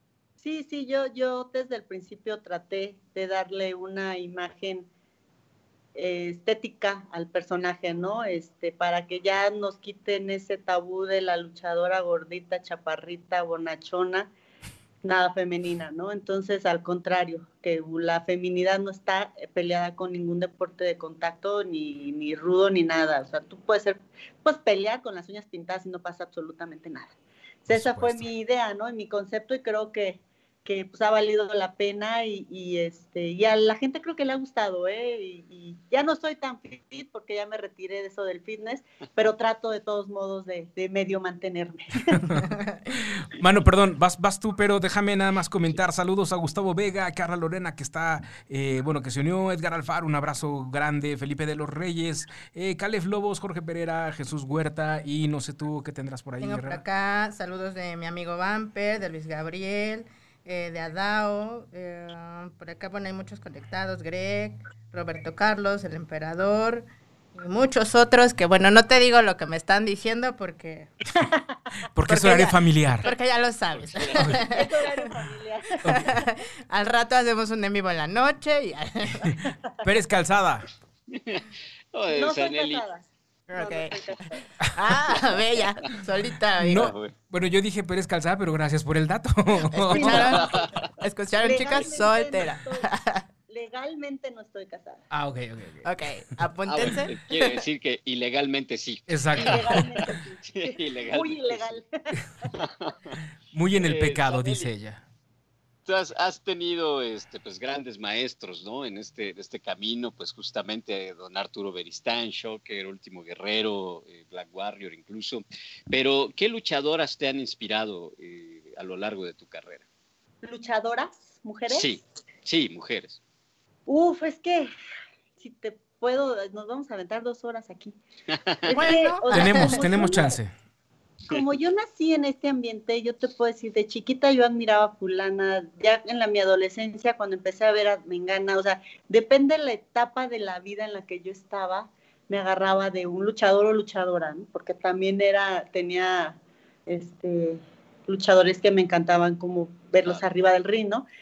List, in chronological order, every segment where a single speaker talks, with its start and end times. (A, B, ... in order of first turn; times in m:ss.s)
0:00.4-0:04.9 A
0:05.9-0:14.3 A
0:15.0-0:27.1 A
0:27.6-0:42.3 A
0:27.7-0:28.3 B
0:42.2-0:42.4 B
0:43.2-0:56.8 B
0:56.4-1:10.9 C
1:11.9-1:13.1 B
1:12.1-1:15.1 C
1:13.8-1:14.2 D
1:14.3-1:15.8 A
1:15.8-1:19.3 C
1:19.3-1:20.6 B
1:21.1-1:22.8 D
1:22.1-1:24.4 A
1:23.5-1:24.0 C
1:24.7-1:26.9 C
1:26.6-1:30.4 B
1:26.7-1:27.1 D
1:29.8-1:30.5 C
1:29.9-1:30.6 A
1:30.4-1:30.7 D
1:31.0-1:33.2 C
1:31.4-1:32.9 A
1:33.5-1:35.0 A
1:35.1-1:35.9 B
1:35.8-1:37.6 C
1:36.7-1:39.9 D
1:39.1-1:39.8 B
1:39.4-1:41.8 A
1:40.5-1:41.8 D
1:42.5-1:43.2 D
1:43.5-1:45.0 B
1:43.8-1:44.6 D
1:45.8-1:59.8 D
2:00.4-2:01.9 A
2:01.7-2:03.2 D
2:03.9-2:04.7 A
2:05.4-2:08.0 A
2:08.3-2:08.6 D
2:08.6-2:10.3 A
2:08.7-2:09.9 C
2:09.3-2:10.5 B
2:11.3-2:31.0 A